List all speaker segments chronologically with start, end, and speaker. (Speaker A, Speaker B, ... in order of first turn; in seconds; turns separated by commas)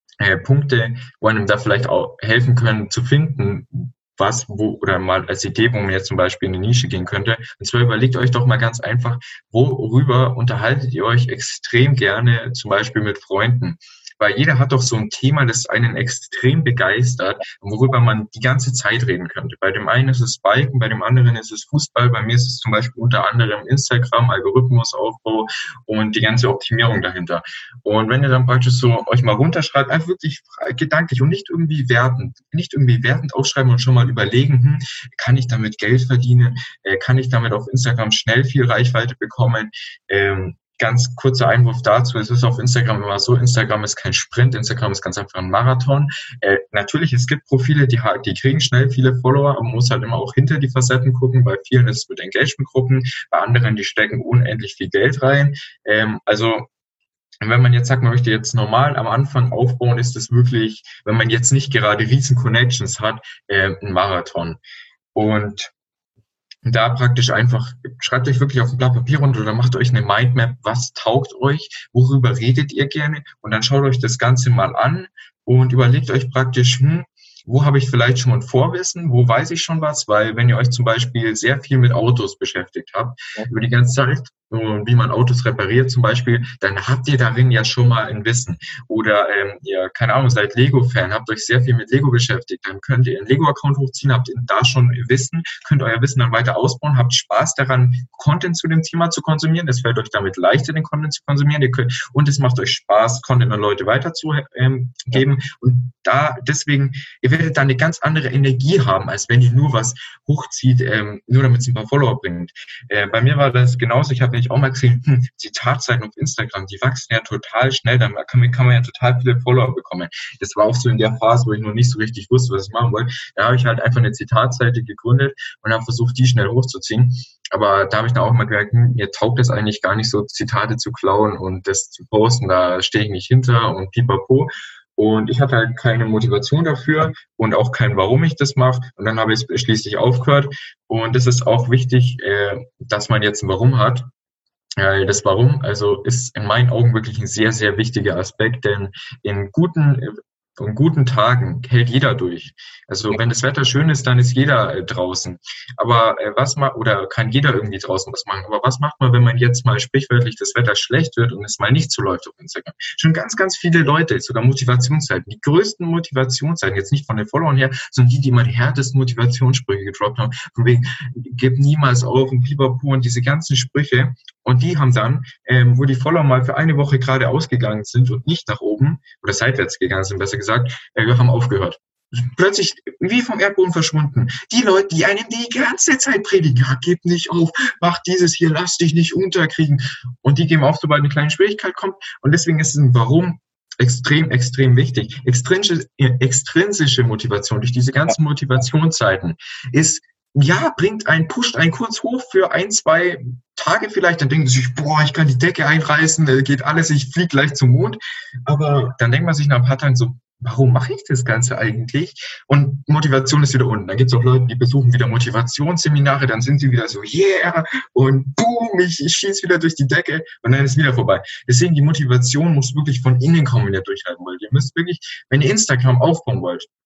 Speaker A: 0.2-56.7, Speaker A: 57.4-64.6, Speaker A: 65.2-65.7, Speaker A: 66.7-144.1, Speaker A: 144.8-226.7